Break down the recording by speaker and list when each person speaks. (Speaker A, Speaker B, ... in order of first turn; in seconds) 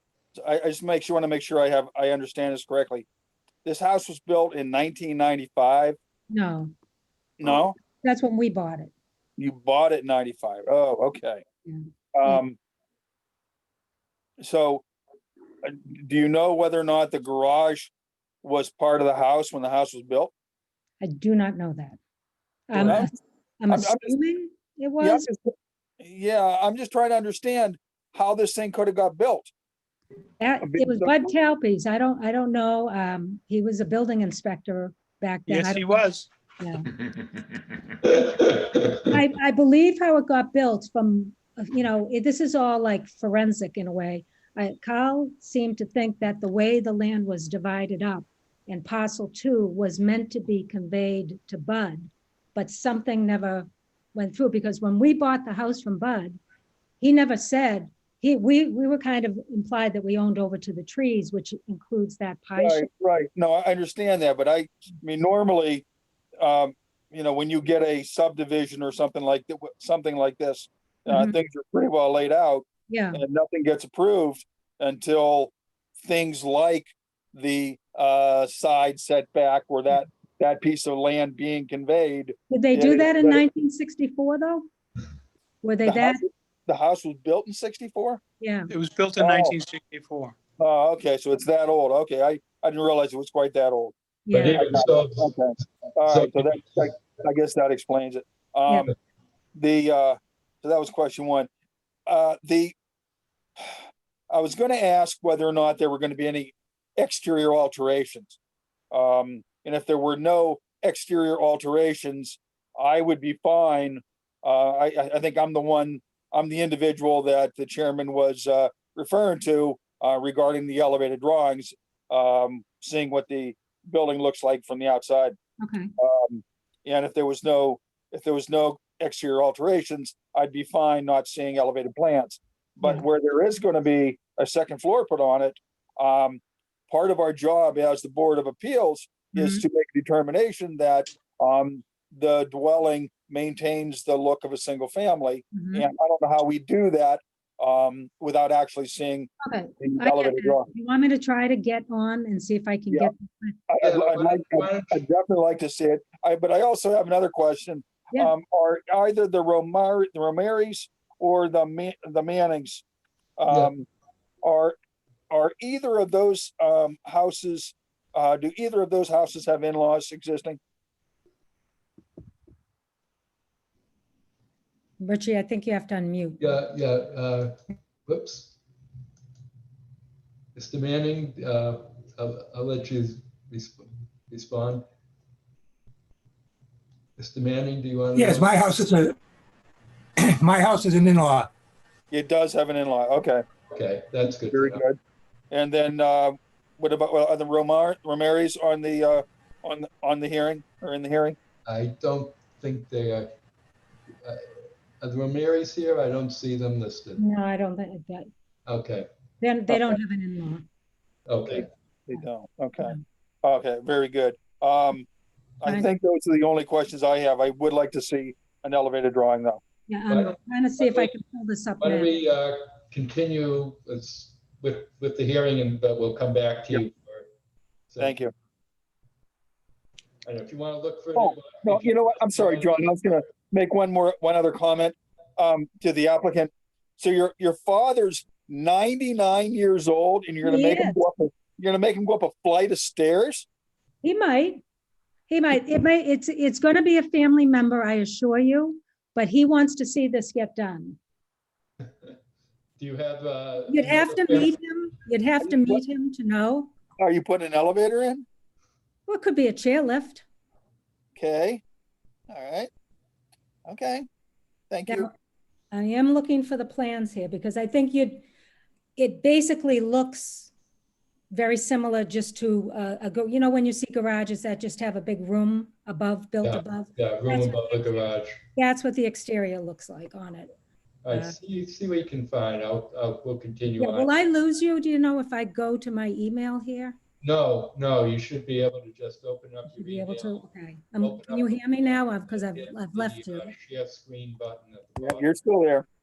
Speaker A: 0.3-3.0, 3.6-6.0, 7.4-7.8, 9.4-11.4, 12.2-12.6, 14.4-14.8, 15.6-17.9, 18.4-20.3, 22.7-23.1, 23.7-24.1, 25.0-29.5, 30.6-31.3, 62.6-65.8, 66.4-83.4, 85.8-88.2, 89.2-89.6, 90.6-98.9, 99.6-101.5, 102.1-102.8, 104.3-108.4, 108.9-125.4, 126.0-150.7, 153.7-162.8, 163.4-163.9, 164.4-164.8, 165.3-170.6, 192.1-193.4, 194.5-195.0, 195.5-201.4, 209.7-210.0, 211.5-215.1, 215.6-219.6, 228.0-228.3, 231.2-243.5, 255.4-255.8, 257.0-258.3, 261.2-261.6, 262.3-262.7, 263.7-264.1, 264.7-265.1, 295.0-295.9
Speaker B: 6.3-6.7, 7.4-8.9, 11.7-12.4, 21.0-22.0, 22.7-25.3, 30.4-36.9, 39.0-56.4, 57.0-62.9, 71.1-71.4, 72.9-73.2, 82.5-84.7, 85.6-86.2, 88.4-88.7, 94.2-94.6, 98.7-98.9, 125.6-125.9, 139.3-139.6, 145.5-145.8, 149.4-153.6, 175.0-176.4, 207.2-208.3, 209.4-210.7, 219.9-222.2, 240.4-241.0, 244.0-244.6, 245.3-251.0, 253.7-256.7, 259.1-260.2, 265.7-268.2, 269.0-270.5, 271.3-278.0, 278.6-280.5, 281.1-281.4, 283.8-287.0, 289.7-293.5
Speaker C: 35.5-36.3, 88.7-90.3
Speaker D: 94.3-96.9, 153.8-155.0, 163.5-163.7, 176.4-178.6, 180.5-184.8, 187.2-188.5, 193.7-194.8, 201.7-203.3, 204.2-207.2, 208.7-209.1, 211.3-211.7, 220.1-221.1, 221.8-227.3, 227.9-228.2, 230.2-233.3, 252.8-254.6, 276.4-278.4, 281.1-284.1, 287.2-290.5, 291.0-295.4
Speaker E: 188.2-189.2, 190.2-191.5